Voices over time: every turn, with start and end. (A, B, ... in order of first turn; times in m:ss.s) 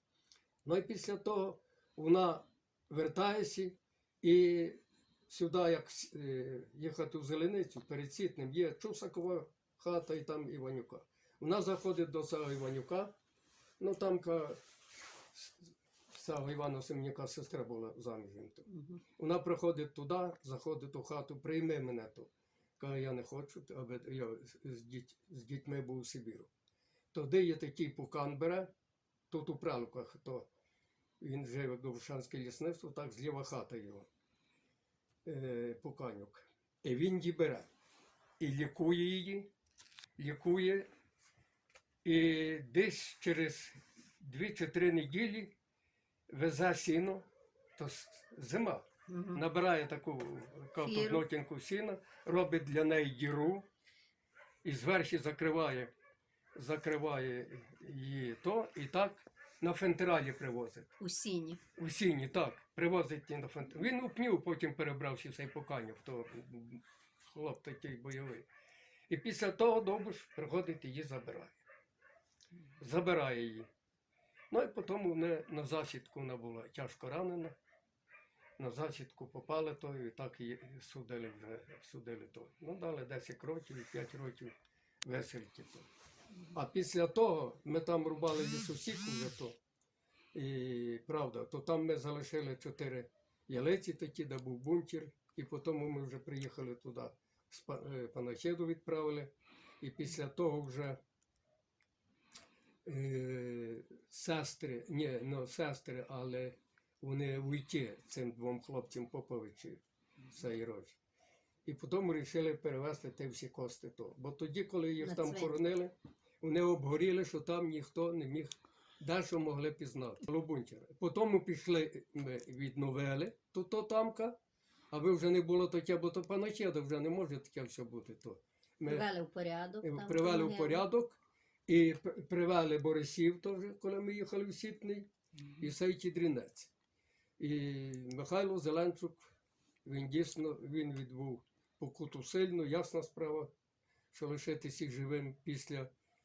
0:00.6-0:13.1 A
0:13.8-0:14.6 A
0:16.1-0:26.5 A
0:18.7-0:19.0 B
0:27.1-0:28.7 A
0:29.3-0:30.5 A
0:31.2-0:34.1 A
0:35.2-0:37.7 A
0:38.4-0:39.5 A
0:40.2-0:40.9 A
0:42.0-0:45.5 A
0:46.3-0:47.2 A
0:47.8-0:53.6 A
0:49.1-0:49.4 B
0:50.8-0:51.3 B
0:54.6-0:55.9 A
0:56.6-1:00.9 A
1:01.0-1:01.6 B
1:01.8-1:08.4 A
1:09.1-1:11.6 A
1:12.8-1:13.7 A
1:14.5-1:17.5 A
1:18.6-1:25.9 A
1:26.5-1:29.6 A
1:30.3-1:41.0 A
1:42.8-1:49.8 A
1:50.3-1:51.0 A
1:51.6-2:04.4 A
1:55.0-1:55.6 B
2:04.9-2:09.1 A
2:08.8-2:10.8 B
2:09.8-2:16.7 A
2:17.4-2:19.3 A
2:19.8-2:23.5 A
2:24.1-2:25.9 A